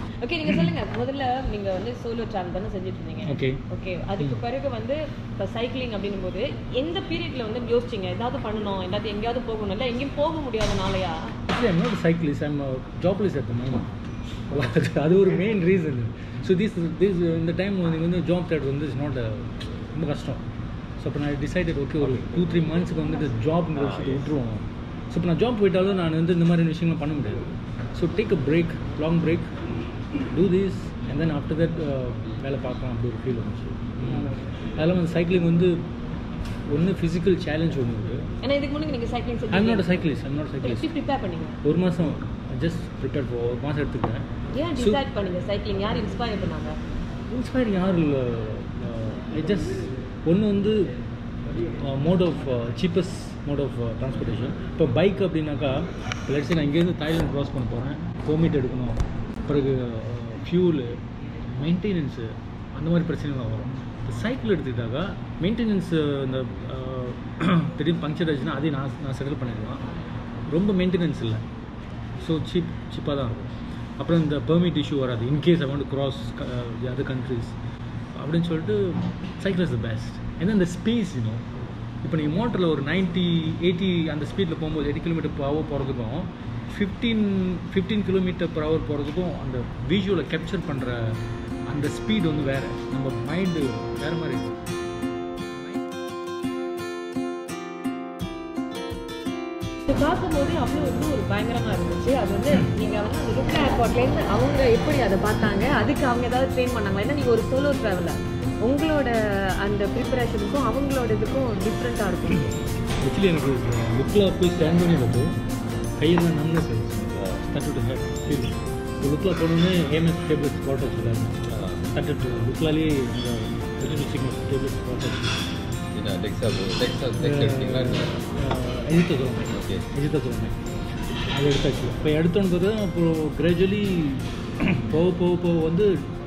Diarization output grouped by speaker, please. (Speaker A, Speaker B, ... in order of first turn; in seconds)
Speaker A: 0.2-11.3, 38.4-39.9, 40.6-41.6, 44.5-46.8, 99.9-112.5
Speaker B: 3.2-3.6, 11.5-13.9, 14.5-20.4, 21.0-29.5, 30.3-35.9, 36.7-38.3, 39.5-40.9, 41.6-45.0, 47.3-50.9, 51.6-69.9, 70.5-71.4, 72.2-77.5, 78.2-81.4, 82.0-94.6, 113.0-115.3, 116.0-125.4, 127.2-130.5, 131.3-136.1
Speaker C: 121.5-121.9, 125.9-128.2, 129.5-129.9